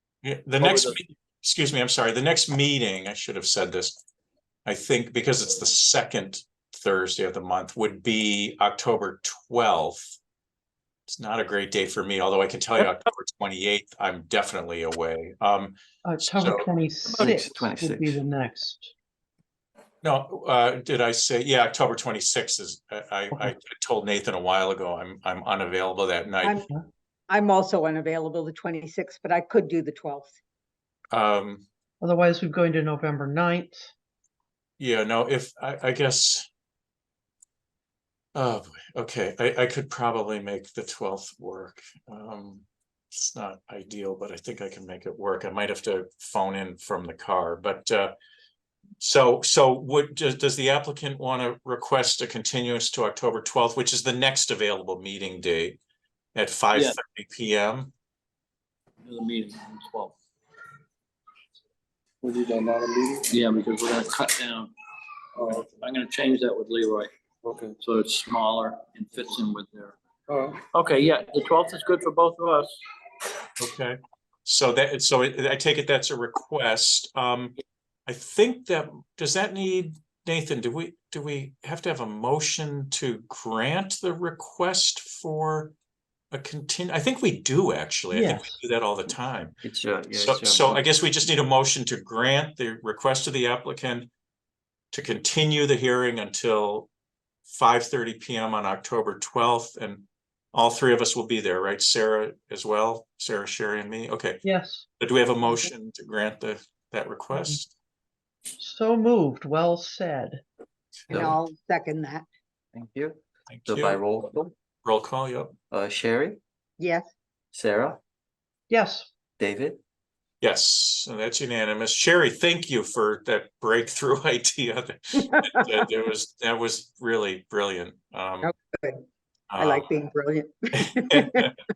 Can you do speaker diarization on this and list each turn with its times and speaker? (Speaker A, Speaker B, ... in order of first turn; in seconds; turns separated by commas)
Speaker A: 0.2-4.0, Speaker B: 0.6-1.0, Speaker A: 4.7-10.1, Speaker A: 11.1-16.8, Speaker B: 12.8-13.0, Speaker C: 16.1-18.9, Speaker D: 17.1-18.2, Speaker A: 20.0-26.7, Speaker E: 26.4-26.7, Speaker E: 27.3-30.4, Speaker A: 31.1-31.6, Speaker C: 32.0-33.9, Speaker A: 34.8-36.5, Speaker A: 38.4-48.1, Speaker A: 49.0-55.8, Speaker A: 56.4-57.9, Speaker B: 59.0-60.2, Speaker F: 62.2-63.3, Speaker B: 63.3-64.7, Speaker F: 65.4-65.6, Speaker B: 65.4-67.1, Speaker F: 67.4-67.8, Speaker B: 67.8-70.0, Speaker F: 70.3-70.6, Speaker B: 70.7-72.8, Speaker A: 73.6-85.8, Speaker A: 86.3-89.6, Speaker C: 88.1-88.6, Speaker D: 89.6-90.9, Speaker A: 90.1-94.1, Speaker A: 94.9-96.9, Speaker A: 97.5-104.5, Speaker C: 104.4-104.9, Speaker A: 105.0-107.7, Speaker C: 107.3-107.6, Speaker C: 108.6-110.4, Speaker A: 111.1-111.4, Speaker D: 111.1-111.4, Speaker E: 111.1-112.2, Speaker D: 112.8-114.5, Speaker A: 113.5-114.0, Speaker A: 114.8-115.5, Speaker D: 115.7-116.4, Speaker E: 116.8-117.1, Speaker D: 117.5-118.0, Speaker C: 118.7-119.1, Speaker D: 119.4-119.8, Speaker A: 120.4-128.5, Speaker E: 128.4-129.0, Speaker A: 129.5-129.9, Speaker E: 129.6-131.5, Speaker A: 130.8-131.6